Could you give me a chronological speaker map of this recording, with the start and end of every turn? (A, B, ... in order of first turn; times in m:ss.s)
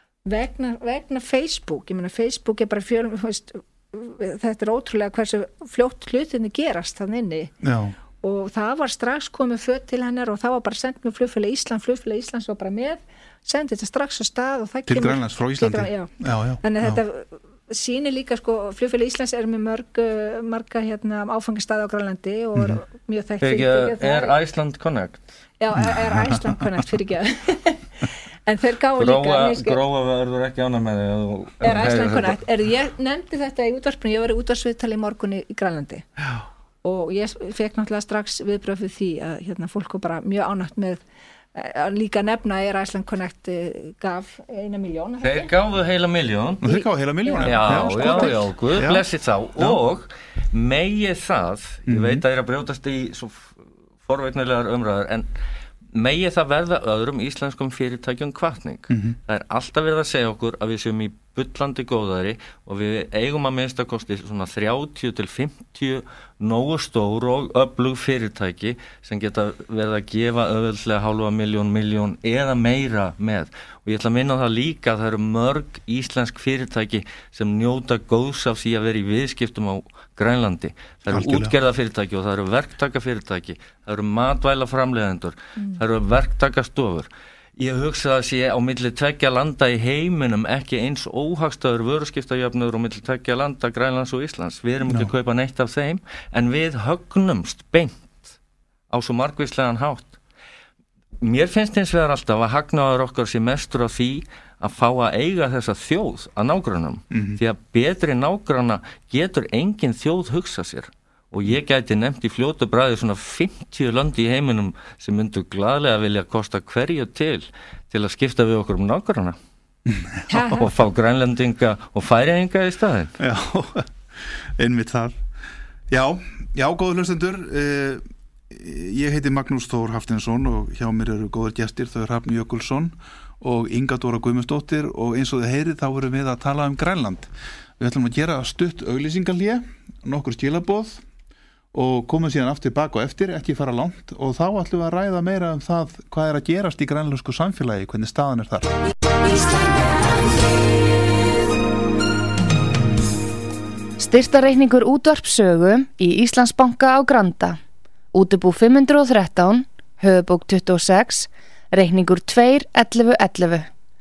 0:00.2-0:07.5 A
0:07.6-0:08.0 B
0:08.2-0:24.3 A
0:14.8-0:17.0 B
0:23.4-0:25.3 C
0:25.6-0:29.8 A
0:25.8-0:26.6 B
0:29.0-0:32.4 C
0:31.6-0:36.1 A
0:36.8-0:41.0 A
0:41.5-0:45.5 A
0:45.2-0:46.7 C
0:46.6-0:49.0 B
0:46.7-0:48.4 A
0:47.4-0:55.3 C
0:51.9-0:52.2 B
0:55.9-1:38.3 C
0:58.9-0:59.2 B
1:21.1-1:21.5 B
1:34.8-1:35.1 B
1:38.9-1:40.2 C
1:41.2-1:59.4 C
1:47.1-1:47.4 B
1:59.8-2:00.6 B
2:00.3-2:00.7 A
2:00.5-2:03.1 C
2:03.2-2:05.2 B
2:05.9-2:21.0 B
2:21.7-2:28.7 B
2:34.0-2:37.6 D
2:38.1-2:43.7 D